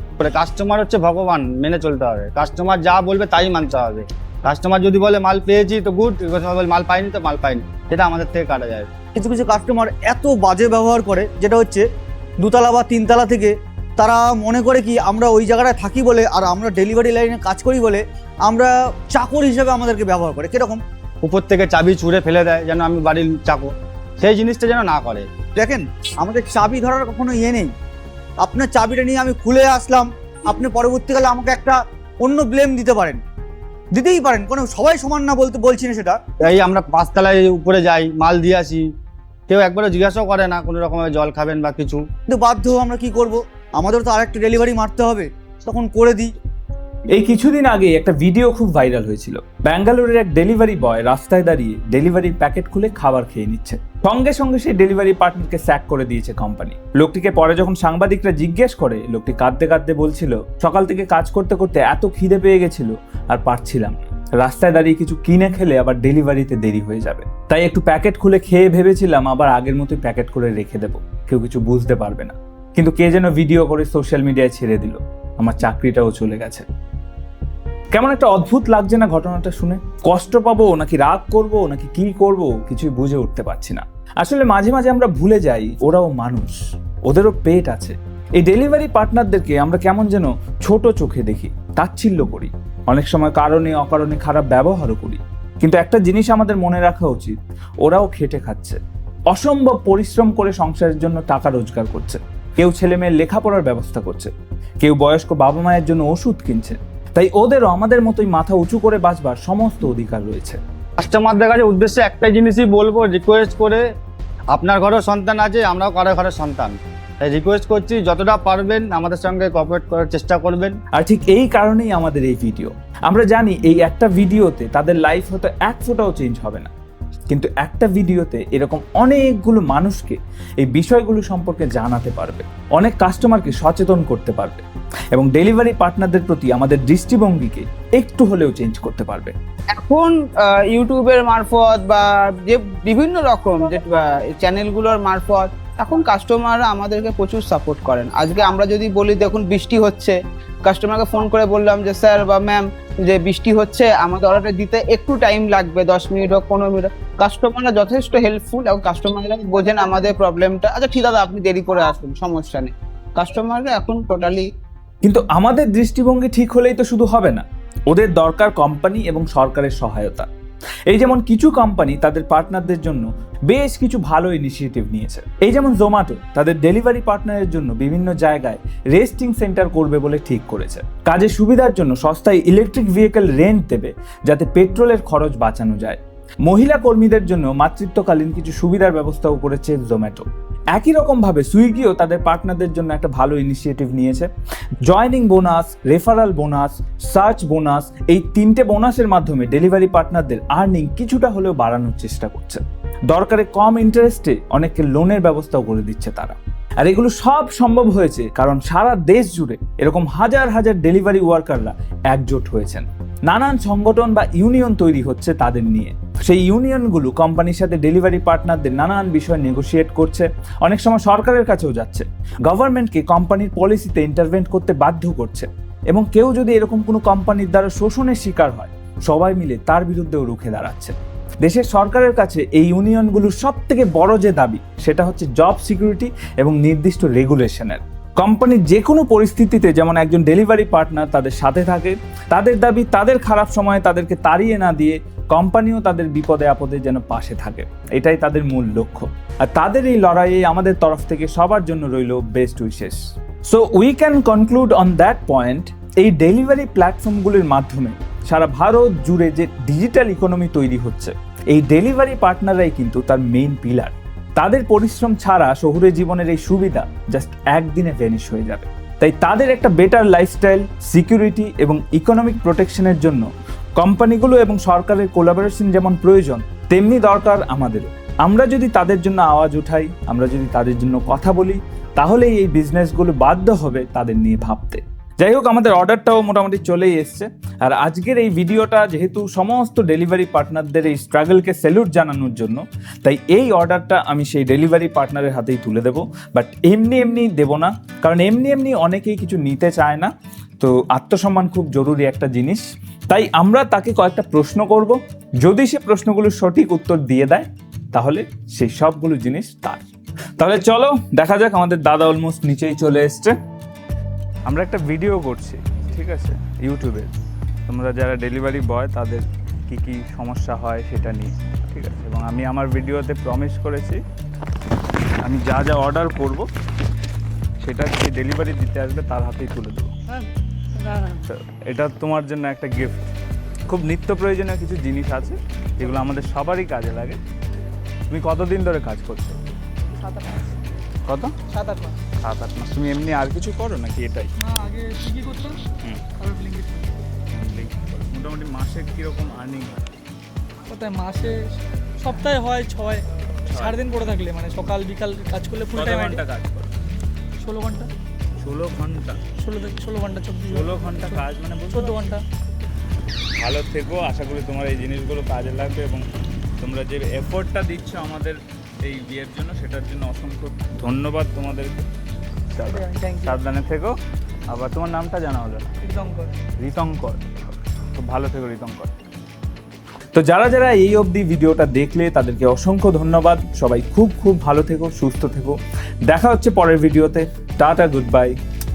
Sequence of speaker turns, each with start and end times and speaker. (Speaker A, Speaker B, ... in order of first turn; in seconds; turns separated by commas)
Speaker A: 0.2-8.9, Speaker B: 9.1-11.8, Speaker B: 12.4-20.8, Speaker A: 21.2-25.2, Speaker B: 25.5-27.7, Speaker B: 28.4-33.2, Speaker B: 33.9-36.3, Speaker A: 36.4-38.8, Speaker A: 39.5-42.0, Speaker B: 42.2-46.3, Speaker C: 47.1-76.7, Speaker C: 77.9-86.5, Speaker C: 87.1-98.8, Speaker C: 99.3-110.6, Speaker A: 111.0-113.8, Speaker A: 114.5-120.8, Speaker C: 120.9-126.7, Speaker C: 127.3-139.3, Speaker D: 139.7-164.4, Speaker C: 165.0-170.3, Speaker C: 170.9-194.3, Speaker C: 194.8-273.2, Speaker C: 273.8-313.3, Speaker C: 314.5-317.1, Speaker C: 317.7-324.0, Speaker C: 325.2-326.5, Speaker C: 327.6-329.9, Speaker C: 331.1-333.0, Speaker C: 333.7-337.2, Speaker C: 338.1-339.4, Speaker E: 340.0-340.5, Speaker C: 341.1-341.4, Speaker E: 341.5-342.0, Speaker C: 342.2-344.3, Speaker E: 344.4-345.6, Speaker E: 346.2-346.9, Speaker C: 347.3-349.9, Speaker E: 350.7-351.4, Speaker E: 352.0-356.2, Speaker C: 353.5-353.9, Speaker C: 355.7-356.7, Speaker E: 357.4-357.9, Speaker C: 358.4-359.3, Speaker E: 359.4-361.2, Speaker C: 360.5-362.1, Speaker E: 361.7-362.2, Speaker C: 363.4-366.0, Speaker C: 366.6-371.9, Speaker C: 372.5-373.9, Speaker E: 372.7-373.4, Speaker C: 374.5-375.8, Speaker E: 375.8-376.3, Speaker C: 376.6-378.9, Speaker C: 380.1-388.3